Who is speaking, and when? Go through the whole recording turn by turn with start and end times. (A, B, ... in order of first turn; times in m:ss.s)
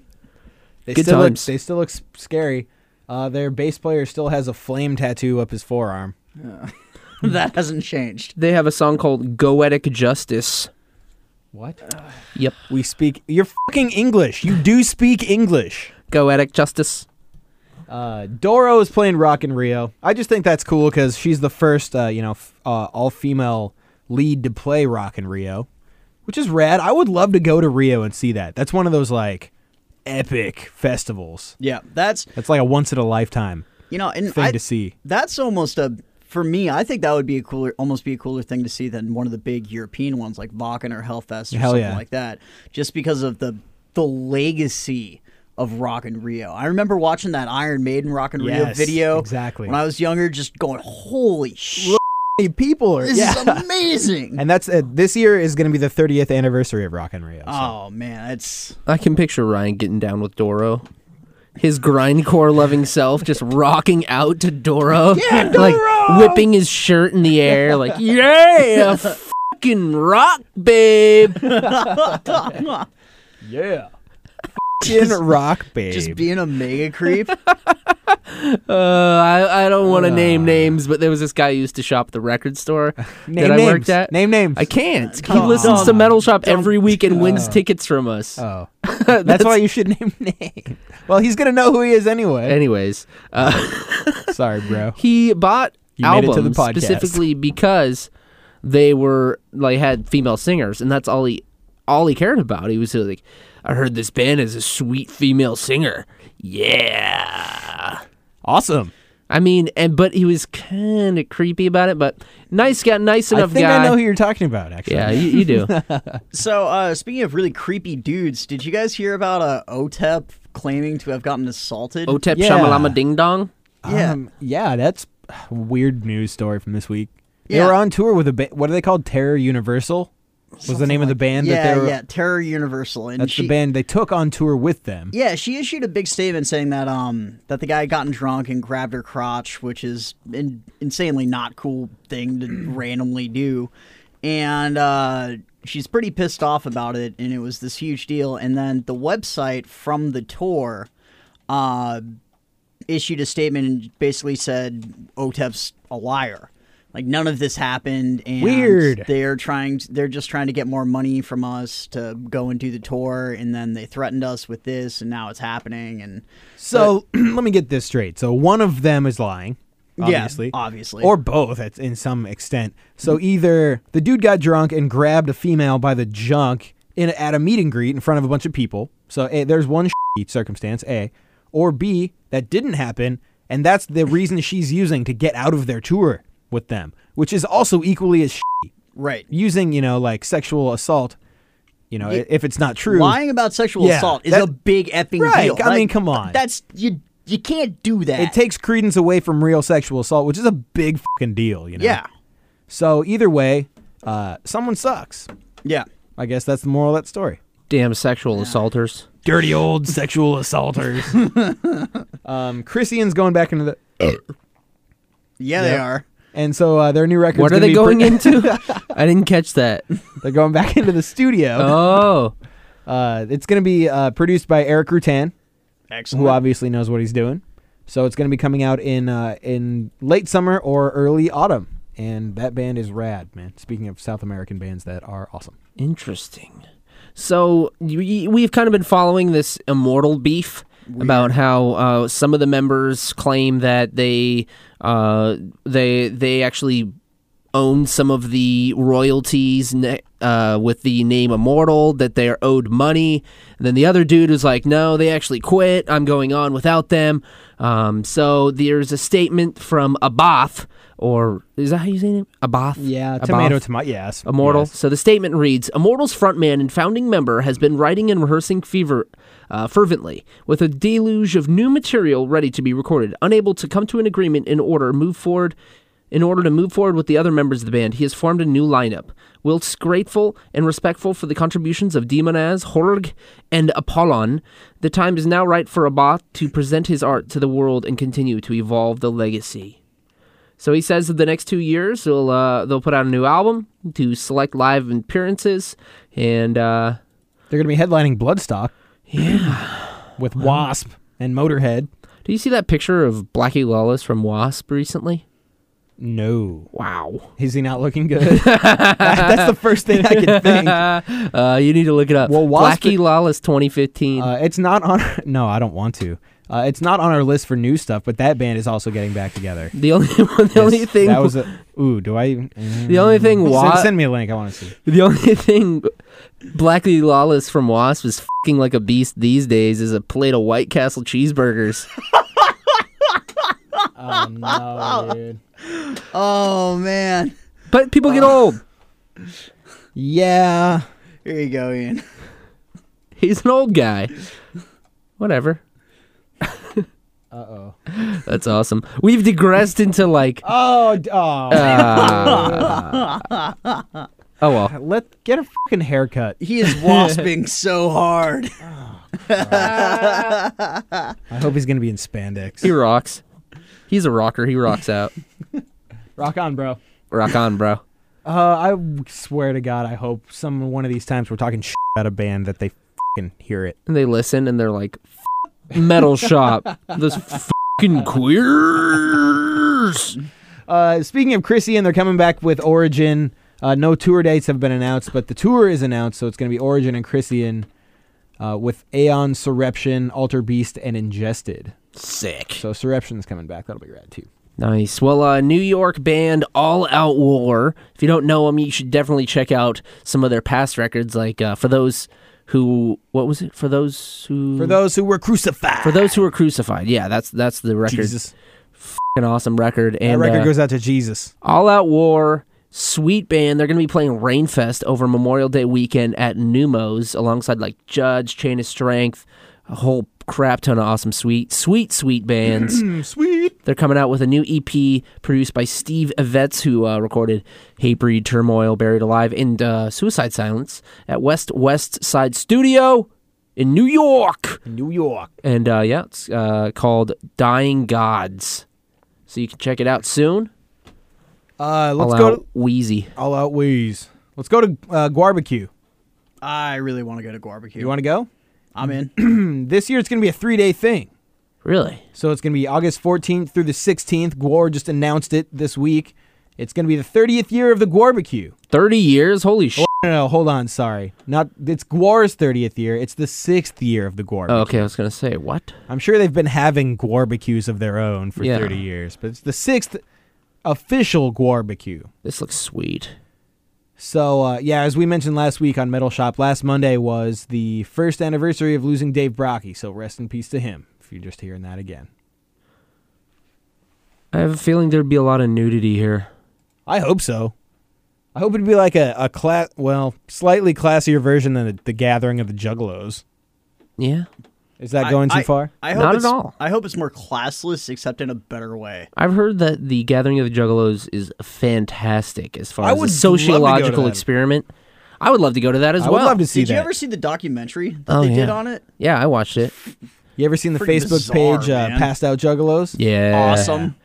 0:00.8-0:06.1 A
0:00.9-0:01.5 B
0:06.4-0:08.3 C
0:08.4-0:10.7 B
0:11.5-0:11.8 A
0:12.7-0:15.9 A
0:16.1-0:17.0 B
0:17.9-0:25.7 A
0:26.2-0:29.5 A
0:30.0-0:31.5 A
0:31.6-0:32.3 C
0:32.4-0:33.7 A
0:33.9-0:52.0 C
0:34.2-0:34.9 A
0:41.5-0:42.0 A
0:48.4-0:49.8 A
0:51.8-0:53.6 A
0:53.0-0:54.4 C
0:54.4-0:57.7 A
0:57.4-0:58.8 C
0:58.9-1:00.8 B
1:01.6-1:11.6 B
1:05.1-1:06.4 C
1:05.4-1:06.3 A
1:11.4-1:12.9 C
1:11.6-1:12.6 A
1:13.4-1:13.9 A
1:14.8-1:16.2 A
1:15.9-1:17.4 C
1:18.1-1:29.6 B
1:19.8-1:20.8 A
1:23.2-1:24.7 A
1:25.1-1:27.5 C
1:25.3-1:26.1 A
1:27.1-1:27.6 A
1:28.4-1:32.6 A
1:32.4-1:34.4 B
1:34.3-1:35.0 A
1:35.0-1:38.1 B
1:36.0-1:37.2 A
1:38.6-1:48.0 B
1:48.4-1:48.9 A
1:49.3-1:54.0 B
1:53.3-1:56.2 A
1:54.9-1:55.7 B
1:56.3-2:02.2 C
2:02.1-2:03.5 B
2:02.3-2:03.0 A
2:03.8-2:10.1 A
2:03.8-2:04.2 C
2:07.5-2:07.8 C
2:10.6-2:13.5 C
2:10.6-2:12.0 A
2:13.2-2:15.1 A
2:15.1-2:23.7 C
2:24.2-2:30.9 C
2:31.5-2:32.1 C
2:32.9-2:46.9 C
2:38.4-2:39.1 A
2:46.6-3:08.7 A
2:50.0-2:51.1 C
3:08.9-3:09.3 C
3:09.3-3:11.2 A
3:11.9-3:13.2 A
3:12.9-3:18.3 C
3:13.8-3:14.5 A
3:15.2-3:16.4 A
3:18.2-3:22.0 A
3:21.8-3:22.1 C
3:22.7-3:25.3 A
3:26.2-3:27.4 A
3:27.7-3:29.0 B
3:28.4-3:28.6 C
3:29.2-3:31.2 A
3:31.2-3:31.9 C
3:32.2-3:34.2 A
3:35.4-3:36.0 C
3:35.6-3:38.8 A
3:37.3-3:39.8 B
3:40.2-3:42.0 A
3:41.6-3:42.3 B
3:42.9-3:45.3 A
3:45.9-3:46.4 C
3:46.1-3:55.6 A
3:55.8-3:56.6 B
3:57.2-4:06.9 B
4:00.9-4:01.3 C
4:07.5-4:23.6 B
4:22.8-4:24.7 A
4:24.2-4:35.6 B
4:36.1-4:49.8 B
4:50.6-4:57.0 B
4:57.5-4:59.6 A
4:59.1-5:00.1 B
5:00.2-5:01.9 A
5:02.2-5:05.2 B
5:06.0-5:06.7 A
5:06.7-5:07.3 B
5:07.4-5:10.8 A
5:08.2-5:14.3 B
5:12.2-5:13.0 A
5:14.2-5:19.7 A
5:19.7-5:21.4 B
5:20.5-5:24.7 A
5:22.8-5:23.9 B
5:24.8-5:25.9 B
5:26.5-5:31.9 B
5:34.0-5:35.4 A
5:34.5-5:35.1 C
5:35.6-5:37.3 C
5:37.7-5:38.6 B
5:38.1-5:38.3 C
5:39.9-5:40.8 A
5:41.2-5:42.0 C
5:43.2-5:44.1 B
5:45.2-5:45.6 B
5:46.4-5:46.8 B
5:47.3-5:47.8 A
5:47.9-5:50.4 B
5:50.4-5:52.8 A
5:51.5-5:53.1 B
5:51.5-5:54.0 C
5:54.4-5:54.7 B
5:54.6-5:56.4 A
5:56.4-5:58.5 C
5:56.8-5:57.2 B
5:58.6-5:59.9 A
5:59.2-6:01.1 C
5:59.5-6:00.4 B
6:01.3-6:02.7 A
6:02.6-6:03.2 B
6:03.9-6:05.1 B
6:06.2-6:06.8 A
6:07.1-6:07.8 B
6:08.2-6:13.8 A
6:13.9-6:15.0 B
6:15.7-6:20.1 B
6:20.7-6:27.7 A
6:28.4-6:31.7 A
6:31.9-6:32.6 B
6:32.6-6:34.3 A
6:34.6-6:44.8 B
6:44.6-6:46.2 A
6:45.8-6:48.1 B
6:47.9-6:48.3 A
6:48.8-6:50.5 B
6:50.0-6:51.3 A
6:51.4-7:02.9 B
7:02.4-7:03.5 A
7:03.6-7:14.6 B
7:14.6-7:15.3 A
7:15.4-7:18.6 B
7:19.3-7:20.5 B
7:21.6-7:22.4 A
7:22.0-7:23.1 B
7:23.2-7:25.7 A
7:26.4-7:27.9 C
7:27.8-7:28.3 A
7:28.7-7:29.1 C
7:29.1-7:31.1 A
7:31.6-7:32.0 B
7:32.1-7:38.5 A
7:38.7-7:39.8 B
7:39.8-7:44.9 A
7:44.5-7:45.8 B
7:45.9-7:50.0 A
7:48.4-7:48.8 B
7:50.6-7:52.1 A
7:52.2-7:53.2 B
7:54.0-8:02.1 A
8:04.3-8:06.3 B
8:06.9-8:07.5 A
8:08.3-8:13.2 A
8:14.0-8:14.3 B
8:14.8-8:15.7 A
8:15.0-8:19.1 C
8:15.9-8:16.6 B
8:19.2-8:24.7 B
8:22.8-8:24.2 A
8:25.2-8:26.4 B
8:26.0-8:26.9 A
8:26.5-8:28.8 C
8:28.1-8:29.7 B
8:30.4-8:33.0 A
8:30.8-8:32.1 C
8:33.0-8:33.9 B
8:33.3-8:33.9 C